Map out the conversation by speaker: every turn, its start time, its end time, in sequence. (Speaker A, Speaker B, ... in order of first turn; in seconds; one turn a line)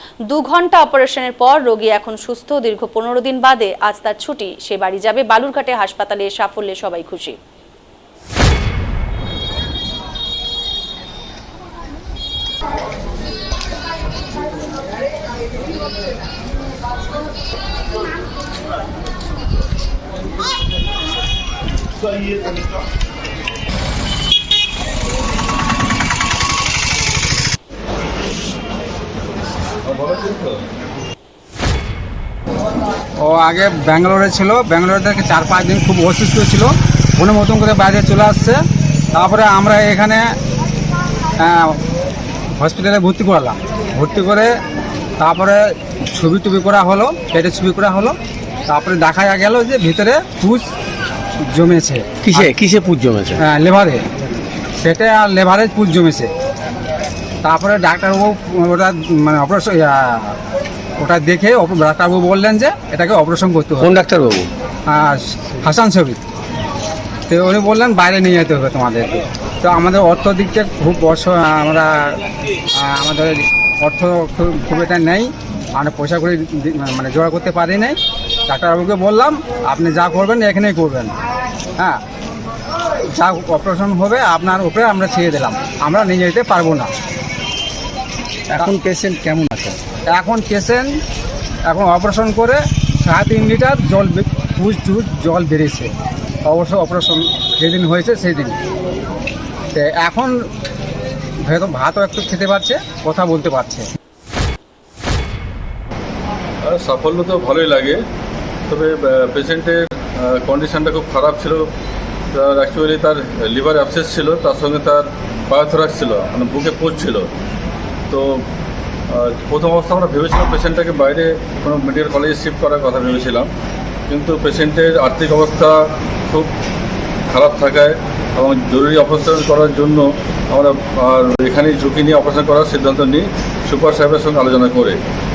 Speaker A: 0.3-7.4
Speaker B: 29.9-30.6
Speaker C: 33.2-38.6
Speaker C: 39.1-40.3
Speaker C: 41.4-41.8
Speaker C: 42.6-44.5
Speaker C: 45.2-48.1
Speaker C: 48.7-50.7
Speaker C: 51.5-52.5
Speaker D: 52.2-53.4
Speaker C: 53.4-54.0
Speaker C: 54.8-56.3
Speaker C: 57.4-60.4
Speaker C: 61.0-64.0
Speaker D: 63.8-64.5
Speaker C: 64.9-66.2
Speaker C: 67.3-72.2
Speaker C: 72.7-81.1
Speaker C: 83.1-86.9
Speaker D: 88.5-89.8
Speaker C: 90.1-90.9
Speaker C: 91.7-95.9
Speaker C: 96.5-98.5
Speaker C: 99.7-100.4
Speaker C: 101.4-103.8
Speaker B: 106.6-108.0
Speaker B: 108.7-111.7
Speaker B: 112.3-117.3
Speaker B: 118.1-118.4
Speaker B: 119.1-123.5
Speaker B: 124.1-126.5
Speaker B: 127.3-135.0